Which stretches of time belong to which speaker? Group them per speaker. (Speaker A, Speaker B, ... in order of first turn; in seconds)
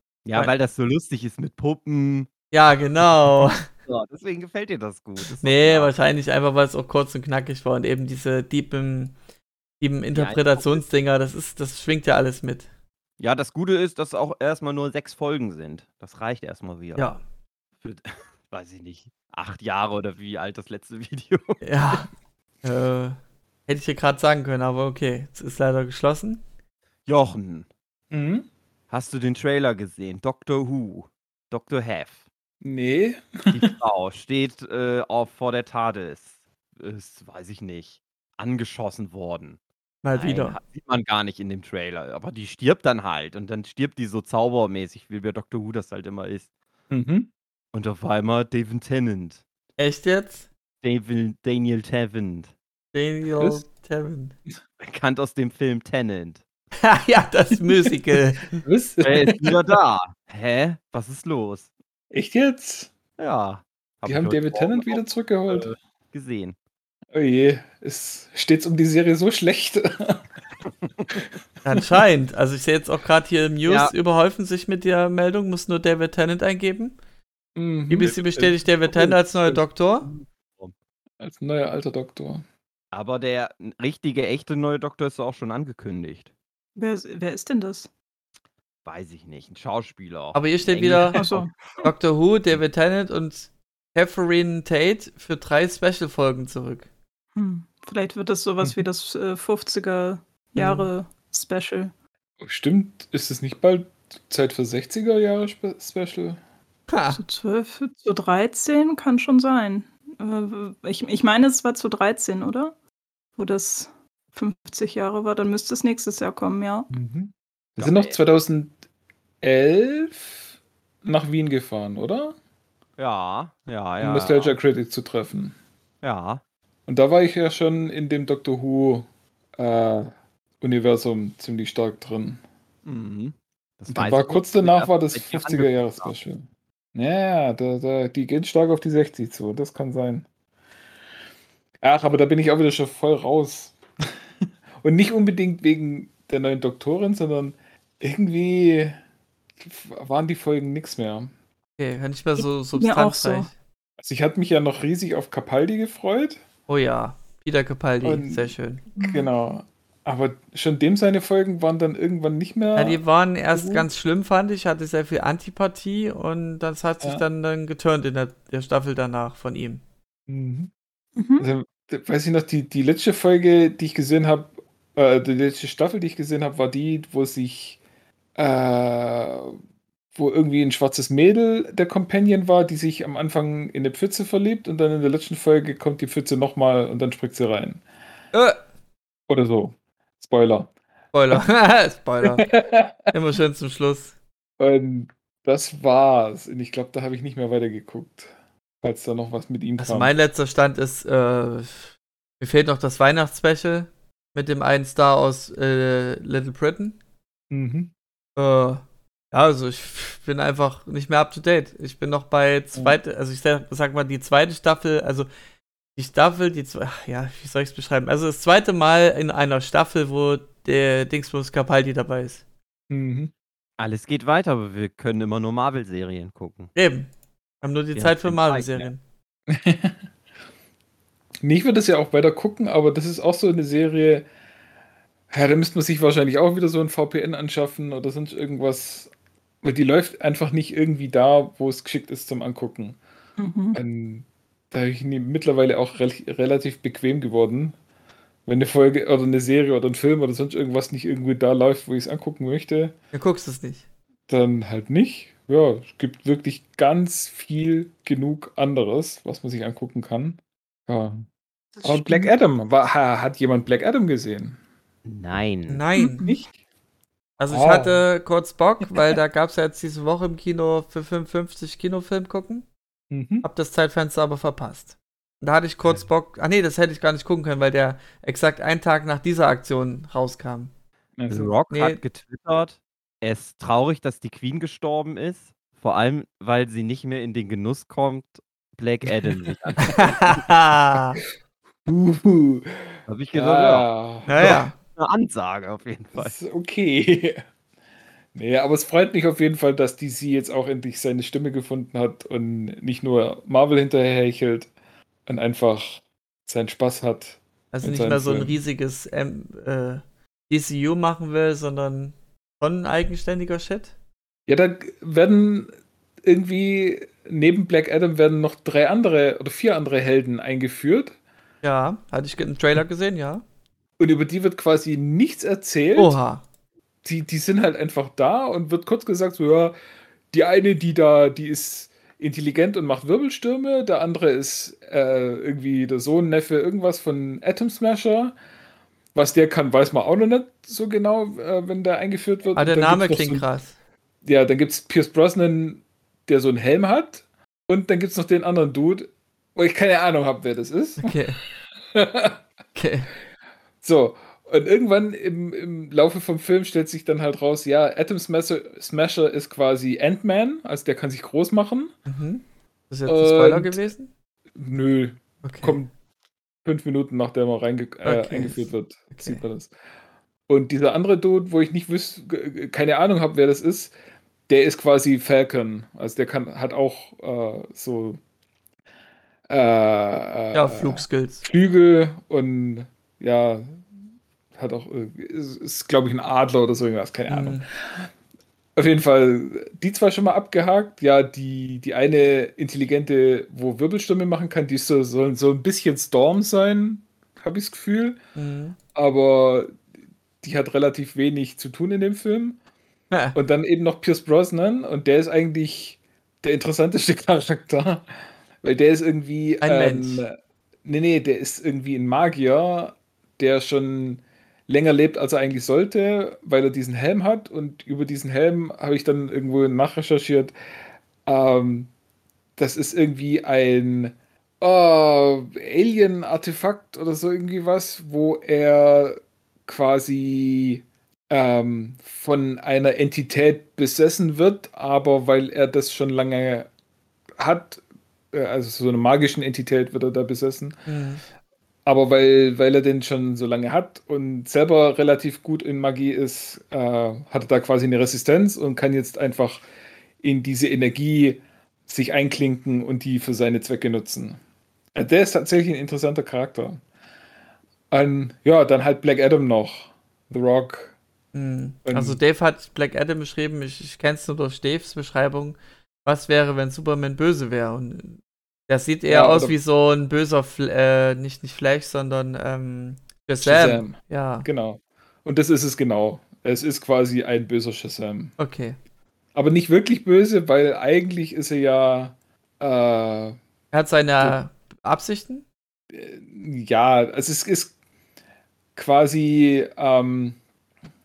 Speaker A: 0.2-2.3, 3.7-5.9, 10.1-10.8, 13.2-17.1, 17.8-22.0, 27.1-27.7, 28.9-32.2, 33.5-39.6, 40.1-46.5, 47.7-49.4, 50.8-52.5, 54.8-56.4, 59.0-61.7, 63.2-66.5, 73.7-73.9, 78.0-78.6, 79.5-80.7, 82.9-86.3, 88.8-91.8, 117.8-118.2, 123.0-124.5, 126.0-126.4, 132.9-136.1, 223.8-226.7, 228.0-228.9, 265.1-265.8, 281.3-290.4, 293.1-296.4
Speaker B: 2.5-3.7, 5.4-9.2, 9.8-12.7, 21.6-22.1, 22.6-26.4, 40.0-40.6, 49.8-50.5, 52.9-54.4, 56.8-58.6, 71.7-77.0, 77.9-80.1, 90.3-91.3, 91.8-96.9, 100.6-100.9, 106.9-107.2, 151.8-153.5, 156.7-158.8, 162.8-169.8, 188.3-188.6, 191.1-192.5, 193.1-194.1, 199.8-207.0, 208.4-215.3, 216.0-222.4, 226.8-227.1, 227.6-229.0, 253.1-253.8, 265.7-266.3, 267.4-272.6, 273.4-280.7, 281.7-282.0, 289.9-291.2, 294.3-294.8, 307.7-313.9, 321.6-323.4, 326.0-326.4, 342.6-343.7, 351.0-351.4, 352.8-353.1, 362.1-364.1, 365.4-365.8, 368.0-369.4, 380.5-381.4, 387.3-387.6, 398.4-398.8, 409.6-410.2, 440.9-441.2, 461.3-474.5, 478.4-478.8, 483.7-485.4
Speaker C: 28.1-28.5, 32.6-33.7, 46.9-47.3, 58.6-59.6, 62.1-62.9, 64.0-65.7, 67.1-70.2, 77.6-78.2, 78.9-79.2, 81.2-82.4, 102.4-106.4, 116.9-118.8, 119.4-120.5, 121.0-122.3, 124.0-125.5, 126.9-132.4, 133.9-140.2, 141.8-144.1, 144.8-149.0, 149.6-151.3, 154.0-156.4, 158.0-163.0, 163.5-163.9, 170.3-170.7, 171.4-177.8, 178.4-179.6, 180.2-187.8, 189.3-190.7, 192.2-193.1, 194.6-198.3, 198.8-200.1, 207.5-207.9, 222.9-223.3, 229.5-230.0, 231.4-234.3, 235.3-239.1, 239.6-243.0, 243.7-247.8, 248.5-252.9, 254.3-261.3, 261.8-264.6, 266.2-266.5, 267.5-268.0, 273.1-273.5, 281.2-281.5, 291.9-294.7, 296.2-297.4, 298.4-304.7, 305.3-308.6, 314.5-315.7, 316.2-321.2, 324.0-326.2, 327.0-329.8, 330.3-338.4, 339.1-343.5, 344.2-351.2, 351.8-352.4, 353.8-361.9, 363.1-363.8, 364.6-365.9, 366.6-369.7, 370.5-373.9, 374.5-378.2, 379.5-383.8, 384.6-388.1, 388.8-398.2, 398.9-399.8, 400.4-402.6, 403.3-408.1, 408.6-410.3, 410.9-420.5, 421.3-421.9, 422.6-436.7, 437.4-440.7, 441.9-449.6, 450.2-454.4, 454.9-456.8, 457.9-460.9, 461.9-462.2, 469.1-469.5, 473.4-478.3, 479.4-483.4, 485.9-487.8, 488.8-490.4
Speaker D: 86.8-87.9, 91.1-91.5, 97.3-101.9, 107.1-112.8, 113.4-116.9, 152.4-153.5, 159.0-159.3, 171.2-171.5, 243.4-243.8, 261.8-262.3